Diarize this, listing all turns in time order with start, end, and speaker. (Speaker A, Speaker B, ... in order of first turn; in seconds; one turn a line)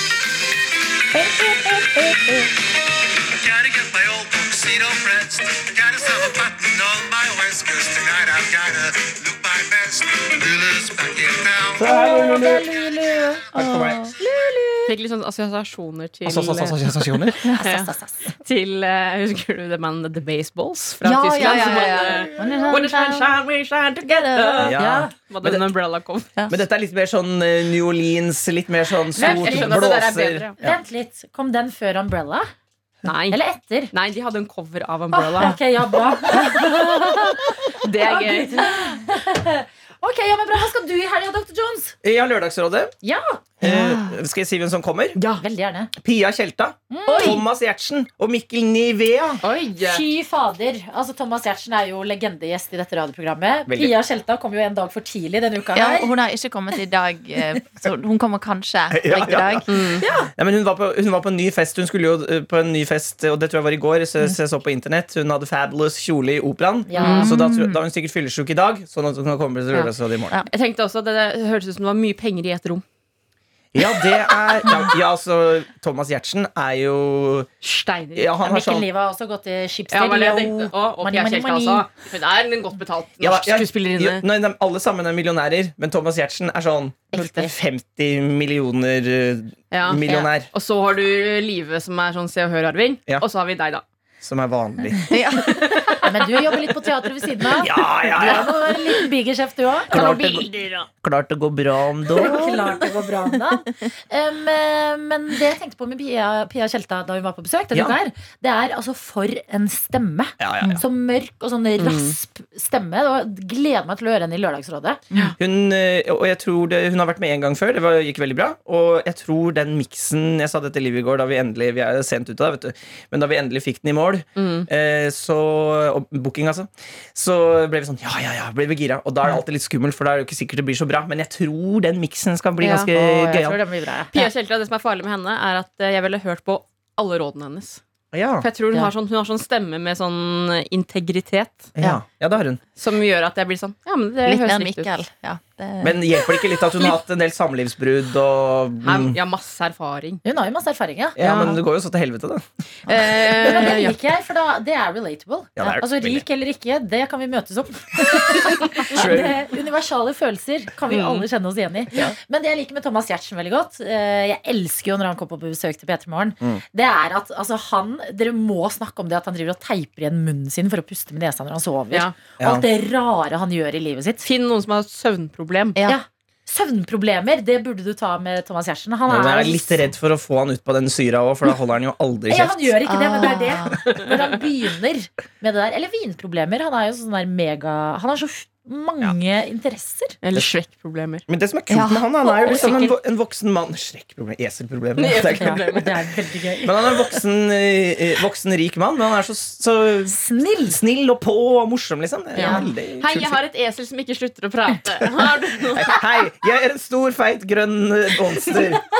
Speaker A: 1.1-2.5
Speaker B: 3.3-11.9
Speaker C: 11.8-12.7
Speaker A: 11.8-14.9
Speaker C: 13.5-14.0
Speaker D: 13.7-14.1
Speaker E: 14.9-16.9
Speaker C: 16.2-17.4
Speaker A: 17.5-18.3
Speaker E: 17.6-26.3
Speaker D: 21.0-23.3
Speaker A: 22.4-22.9
Speaker D: 24.1-24.7
Speaker C: 24.6-25.6
Speaker A: 24.8-25.1
Speaker C: 26.5-30.8
Speaker A: 29.1-29.9
Speaker E: 29.2-30.6
Speaker A: 30.6-32.5
Speaker E: 33.0-33.4
Speaker A: 33.3-33.9
Speaker E: 33.9-35.5
Speaker A: 35.2-42.0
Speaker E: 37.7-38.7
Speaker C: 42.0-42.9
Speaker A: 43.0-43.4
Speaker C: 43.6-45.2
Speaker D: 43.6-44.2
Speaker E: 45.1-45.4
Speaker A: 45.4-45.9
Speaker C: 46.0-49.4
Speaker A: 46.9-47.4
Speaker D: 47.1-47.4
Speaker A: 49.3-56.1
Speaker E: 49.4-50.0
Speaker C: 53.7-53.9
Speaker D: 55.7-59.7
Speaker C: 58.9-70.4
Speaker E: 59.7-60.0
Speaker A: 60.0-60.3
Speaker A: 66.9-67.3
Speaker E: 67.0-67.3
Speaker D: 67.1-67.8
Speaker E: 70.5-72.8
Speaker C: 73.7-77.5
Speaker E: 77.6-78.3
Speaker C: 78.1-78.9
Speaker A: 78.4-81.9
Speaker E: 79.9-84.2
Speaker C: 83.2-90.5
Speaker A: 87.1-87.5
Speaker E: 89.7-93.8
Speaker C: 94.2-95.1
Speaker D: 95.1-95.9
Speaker E: 95.4-96.3
Speaker A: 96.0-100.4
Speaker C: 97.5-98.5
Speaker C: 99.9-102.6
Speaker E: 100.0-100.9
Speaker A: 102.1-115.0
Speaker D: 102.2-102.7
Speaker C: 110.4-110.8
Speaker E: 111.8-112.2
Speaker C: 115.4-133.6
Speaker E: 124.3-124.7
Speaker E: 132.6-132.9
Speaker A: 132.6-134.3
Speaker E: 134.1-137.8
Speaker C: 138.1-138.5
Speaker E: 138.4-141.7
Speaker C: 141.7-142.6
Speaker E: 142.8-144.9
Speaker D: 144.2-146.1
Speaker C: 145.8-149.2
Speaker E: 148.8-150.2
Speaker A: 150.2-151.2
Speaker C: 151.2-152.4
Speaker E: 151.2-151.5
Speaker E: 152.9-154.0
Speaker A: 153.4-174.3
Speaker C: 155.6-156.2
Speaker C: 158.8-159.4
Speaker E: 160.9-161.2
Speaker E: 171.9-172.2
Speaker C: 172.4-172.7
Speaker E: 174.2-175.8
Speaker A: 175.8-179.9
Speaker C: 179.1-182.8
Speaker A: 182.3-190.2
Speaker D: 182.8-183.8
Speaker E: 190.2-191.2
Speaker C: 191.3-195.8
Speaker D: 191.7-192.7
Speaker A: 192.4-193.0
Speaker E: 195.0-195.9
Speaker A: 195.4-196.9
Speaker C: 196.6-203.3
Speaker A: 200.1-200.8
Speaker A: 202.3-202.7
Speaker E: 202.4-205.9
Speaker C: 205.7-208.8